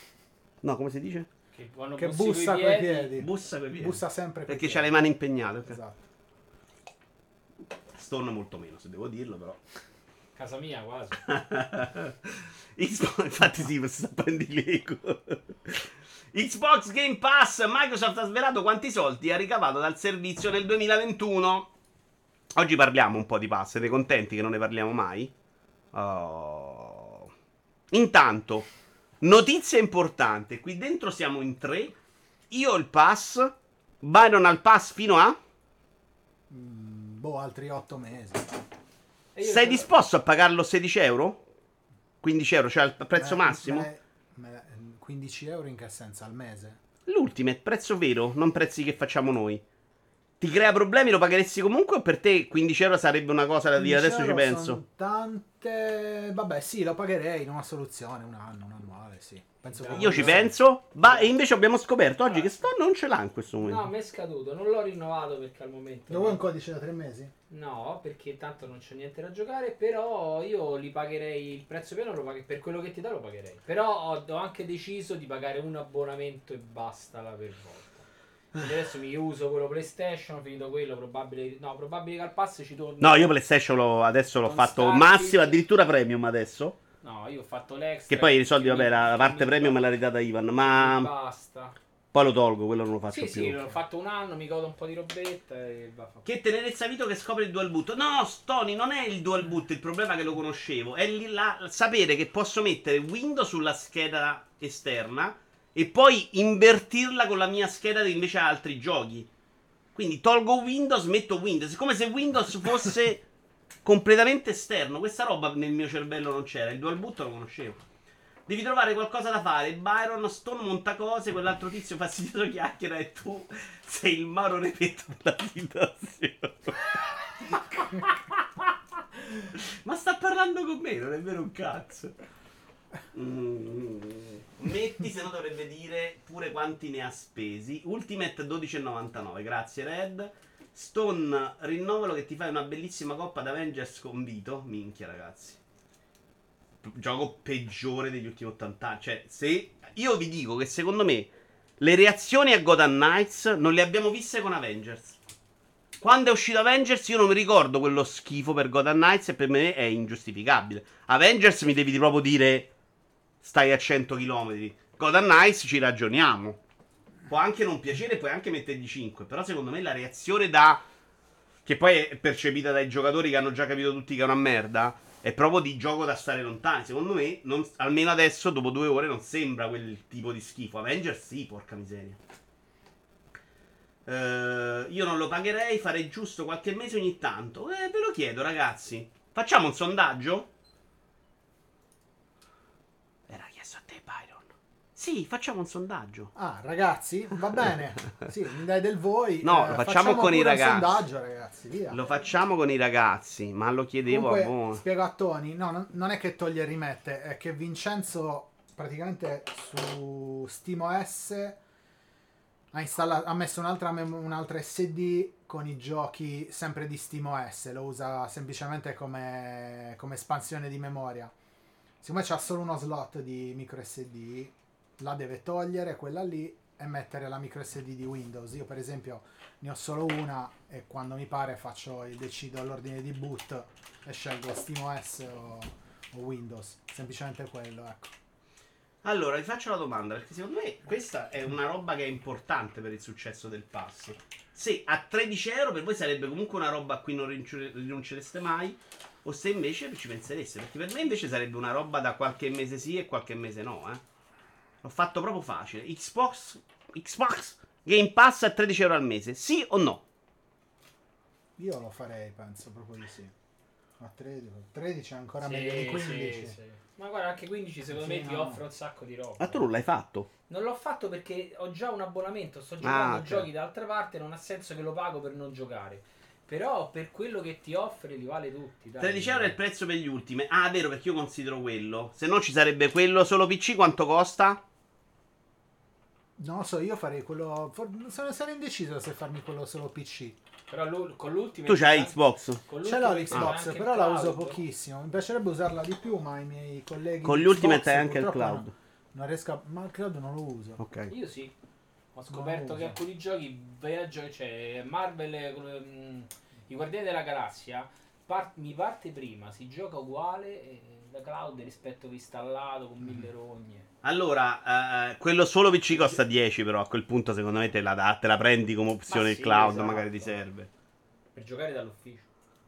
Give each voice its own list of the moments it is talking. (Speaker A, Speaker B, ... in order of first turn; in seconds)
Speaker A: 0.6-1.3, 3.2-5.8, 7.9-9.6, 11.3-21.7, 22.6-25.3, 25.9-27.3, 27.9-28.7, 29.2-32.0, 32.5-35.4, 39.4-41.4, 42.2-43.9, 47.1-49.6, 50.4-54.8, 59.9-63.9, 83.0-86.8, 88.1-91.1, 92.1-93.7, 96.2-109.3, 110.0-113.2, 113.8-117.8, 118.5-126.9, 127.4-132.2, 133.1-145.6, 146.8-155.2, 156.0-162.7, 163.4-166.6, 167.3-170.8, 171.7-182.2, 184.1-190.5, 193.3-196.3, 199.4-201.0, 201.9-204.8, 239.0-254.0, 254.8-260.0, 269.4-270.3, 272.8-273.5, 279.0-284.6, 291.7-292.6, 297.2-298.7, 300.8-301.1, 314.0-320.7
Speaker B: 1.6-3.1, 10.4-11.3, 39.4-39.9, 59.7-60.5, 63.6-66.4, 67.5-78.0, 78.5-83.3, 84.5-85.6, 87.0-89.8, 90.6-91.8, 93.1-96.2, 265.4-269.7, 270.5-279.6, 290.7-294.6, 301.1-301.5, 302.1-313.9, 315.9-316.2, 319.1-320.4, 321.4-322.3
Speaker C: 2.0-5.0, 5.7-6.0, 36.5-38.6, 43.1-46.8, 53.8-60.5, 66.1-67.3, 196.3-202.0, 204.1-211.6, 212.7-221.3, 222.0-238.1, 261.6-263.3, 264.0-266.6, 267.9-268.6, 286.4-290.4, 292.8-300.8, 302.3-303.0